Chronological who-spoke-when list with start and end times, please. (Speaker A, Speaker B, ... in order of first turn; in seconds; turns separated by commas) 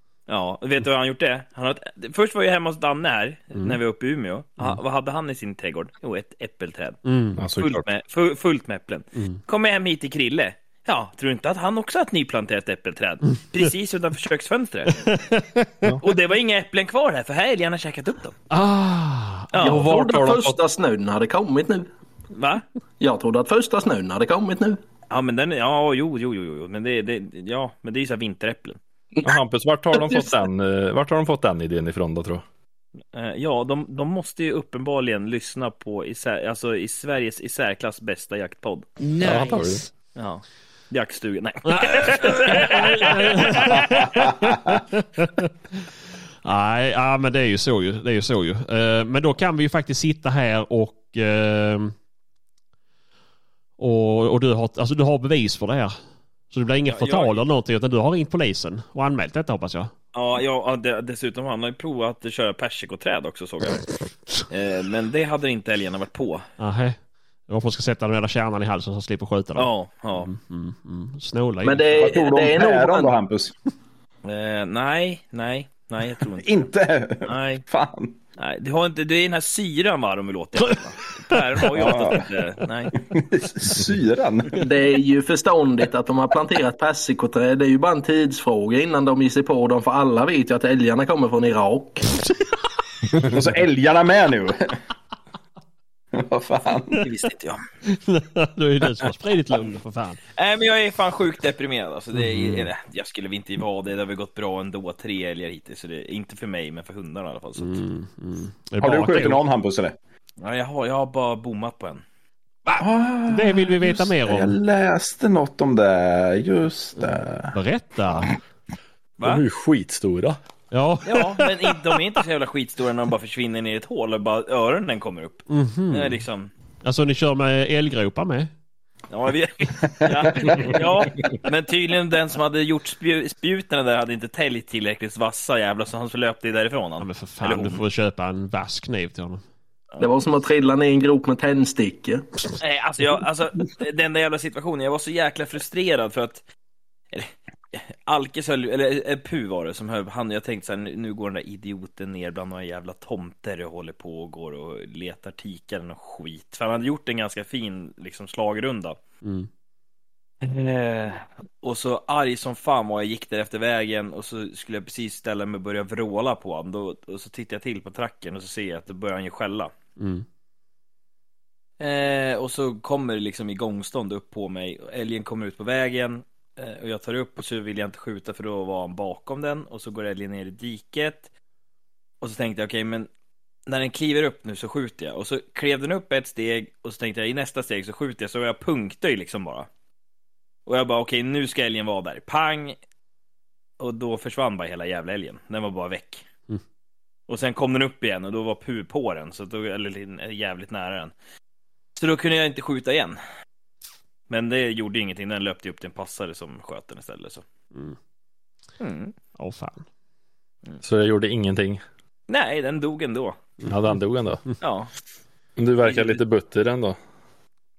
Speaker A: 0.3-7.0, Speaker B: 7.0-7.4, Speaker C: 7.4-7.8, Speaker A: 7.6-15.2, Speaker B: 15.0-16.0, Speaker A: 16.0-18.4, Speaker B: 18.5-20.0, Speaker A: 19.5-19.8, Speaker D: 19.6-21.9, Speaker C: 19.7-20.6, Speaker A: 22.3-22.6, Speaker D: 23.0-24.8, Speaker A: 25.1-28.8, Speaker C: 29.2-32.4, Speaker A: 33.1-39.1, Speaker C: 39.2-39.9, Speaker A: 40.1-44.3, Speaker B: 41.6-45.9, Speaker B: 46.4-51.9, Speaker B: 53.8-55.9, Speaker B: 56.5-59.9, Speaker A: 56.9-57.4, Speaker A: 60.1-63.9, Speaker A: 64.4-66.5, Speaker B: 66.6-67.0, Speaker B: 67.5-71.8, Speaker A: 69.5-70.3, Speaker D: 71.6-73.1, Speaker E: 71.9-73.5, Speaker A: 74.2-76.5, Speaker E: 76.4-78.2, Speaker A: 77.2-77.6, Speaker A: 78.4-83.0, Speaker B: 81.3-81.7, Speaker E: 81.7-82.2, Speaker E: 83.1-84.6, Speaker D: 84.6-92.1, Speaker E: 93.2-94.7, Speaker E: 96.1-97.0, Speaker A: 97.0-97.6, Speaker B: 97.8-100.2, Speaker A: 100.3-107.8, Speaker B: 102.1-102.7, Speaker B: 107.6-109.4, Speaker E: 108.8-110.0, Speaker A: 110.4-112.0, Speaker B: 112.7-114.6, Speaker E: 112.8-117.5, Speaker B: 117.5-118.3, Speaker C: 119.2-120.4, Speaker B: 120.7-121.9, Speaker A: 121.0-126.5, Speaker B: 125.5-126.2, Speaker B: 126.8-128.5, Speaker A: 129.1-137.8, Speaker E: 130.0-130.5, Speaker B: 130.4-130.7, Speaker B: 137.0-139.4, Speaker D: 140.0-142.2, Speaker A: 142.6-146.4, Speaker A: 147.1-159.0, Speaker B: 159.2-159.5, Speaker A: 160.4-169.7, Speaker B: 170.0-170.2, Speaker A: 171.8-181.3, Speaker A: 182.2-183.1, Speaker A: 183.7-189.7, Speaker A: 190.7-192.8, Speaker A: 193.8-196.2, Speaker A: 197.3-201.1, Speaker A: 202.0-203.2, Speaker A: 204.3-207.4, Speaker A: 208.8-209.1, Speaker B: 209.3-209.8, Speaker C: 210.8-211.8, Speaker A: 212.3-213.4, Speaker C: 213.6-214.6, Speaker A: 214.6-214.9, Speaker C: 215.6-216.9, Speaker A: 215.8-216.2